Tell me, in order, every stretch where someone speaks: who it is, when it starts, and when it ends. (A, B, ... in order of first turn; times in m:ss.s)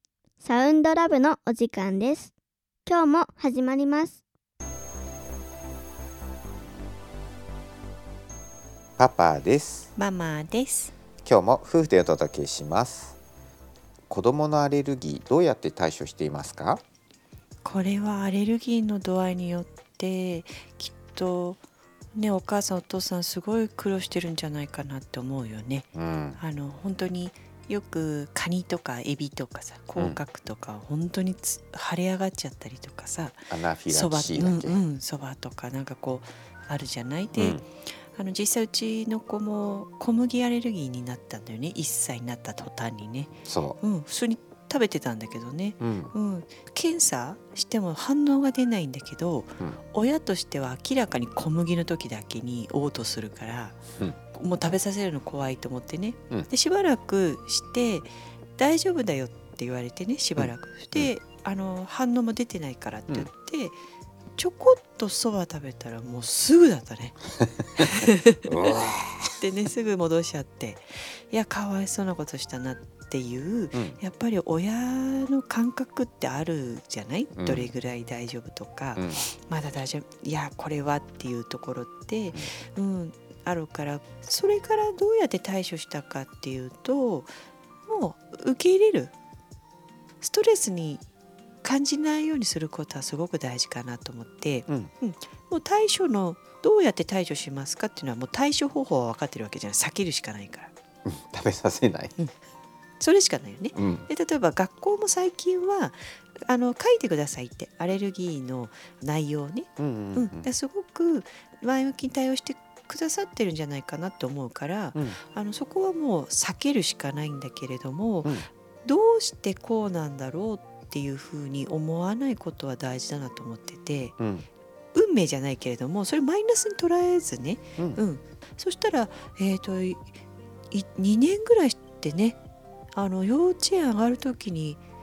0:00.4-0:02.3 A
0:02.8-0:04.2 A
0:09.0-0:09.9 B
0:10.0-0:10.9 C
0:11.2-0:13.2 B
0:14.1-0:16.8 B
0:17.6-0:21.6 C
0:22.1-0:53.8 C
0:25.9-0:26.4 B
0:33.5-0:34.8 B
0:37.4-0:37.6 B
0:43.4-0:43.8 B
0:45.8-0:46.1 B
0:54.3-1:03.8 C
1:00.4-1:01.1 B
1:04.4-1:07.2 C
1:07.6-1:07.8 B
1:07.8-1:08.5 C
1:08.4-1:09.3 B
1:09.4-1:27.3 C
1:13.7-1:14.0 B
1:17.3-1:17.7 B
1:18.9-1:19.2 B
1:27.8-1:29.1 C
1:30.2-1:31.0 C
1:31.6-1:40.7 C
1:41.0-1:42.1 B
1:43.0-2:04.2 C
1:43.7-1:44.1 B
1:49.8-1:50.5 B
2:04.2-2:04.5 B
2:04.9-2:10.2 C
2:07.8-2:08.0 B
2:10.7-2:12.4 C
2:12.9-2:14.8 C